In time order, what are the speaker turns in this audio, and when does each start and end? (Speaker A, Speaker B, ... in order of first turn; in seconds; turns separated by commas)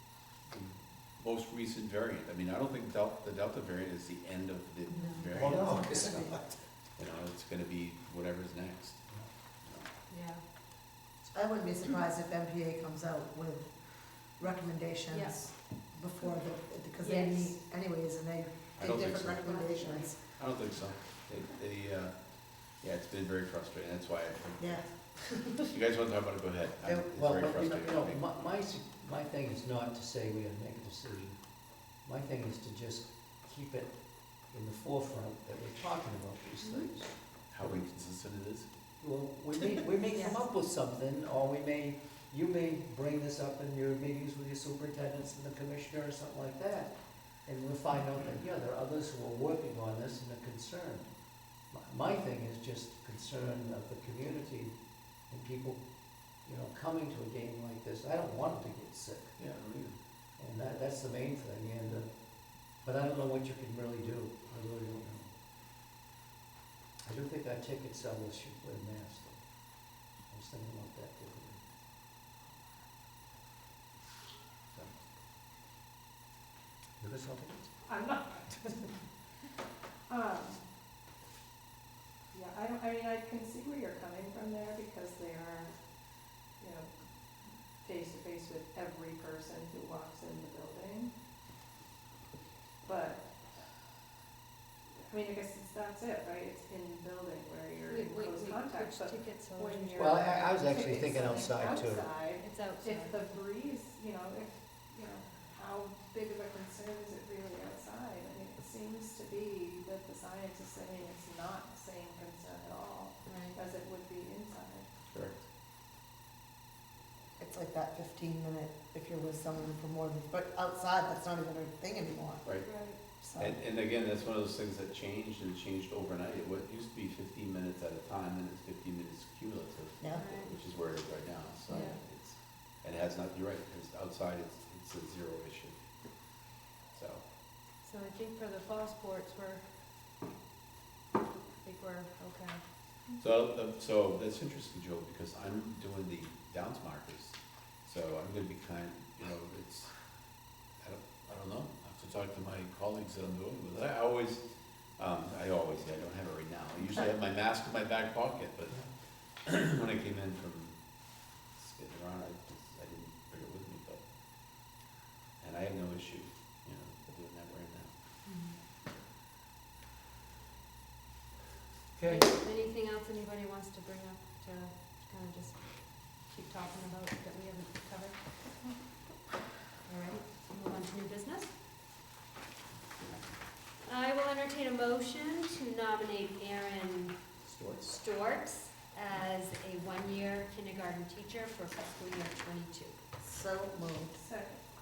Speaker A: 0.5-6.2, Speaker B: 4.9-5.4, Speaker C: 5.3-6.6, Speaker D: 5.5-6.3, Speaker A: 7.0-9.1, Speaker B: 10.1-10.4, Speaker D: 11.3-20.2, Speaker B: 15.1-15.5, Speaker B: 17.0-17.6, Speaker A: 18.8-19.5, Speaker A: 20.3-22.1, Speaker A: 22.8-24.8, Speaker D: 24.6-25.7, Speaker A: 25.6-28.2, Speaker D: 26.8-27.1, Speaker C: 27.1-31.4, Speaker C: 32.0-34.0, Speaker C: 34.5-37.1, Speaker B: 36.6-36.9, Speaker A: 37.5-38.7, Speaker C: 39.0-46.9, Speaker B: 40.1-40.4, Speaker C: 47.5-51.1, Speaker C: 51.7-54.7, Speaker C: 55.3-55.8, Speaker C: 56.4-59.4, Speaker A: 59.4-60.0, Speaker C: 60.4-62.1, Speaker C: 62.8-65.3, Speaker C: 67.1-69.4, Speaker C: 70.3-71.6, Speaker C: 77.0-77.7, Speaker E: 77.8-78.8, Speaker E: 80.1-80.6, Speaker E: 82.3-85.7, Speaker E: 86.6-86.9, Speaker E: 87.8-91.1, Speaker E: 92.8-93.3, Speaker E: 95.1-114.9, Speaker B: 97.9-100.1, Speaker C: 100.0-102.1, Speaker B: 102.4-103.3, Speaker B: 113.2-113.6, Speaker A: 115.1-115.4, Speaker D: 117.4-122.5, Speaker A: 122.4-122.7, Speaker B: 122.6-123.0, Speaker D: 123.2-123.5, Speaker A: 123.4-135.8, Speaker D: 130.0-130.3, Speaker B: 130.2-130.6, Speaker B: 131.7-132.0, Speaker A: 136.9-137.2, Speaker B: 137.8-139.7, Speaker B: 141.6-142.6, Speaker A: 143.2-149.9, Speaker A: 150.8-154.4, Speaker A: 155.0-158.8, Speaker A: 159.4-160.7, Speaker A: 161.6-164.0, Speaker A: 165.4-167.9, Speaker B: 168.3-168.6, Speaker C: 172.0-172.2, Speaker B: 172.1-178.2, Speaker B: 179.9-181.5, Speaker B: 183.8-193.0, Speaker D: 193.2-194.2, Speaker E: 194.2-194.6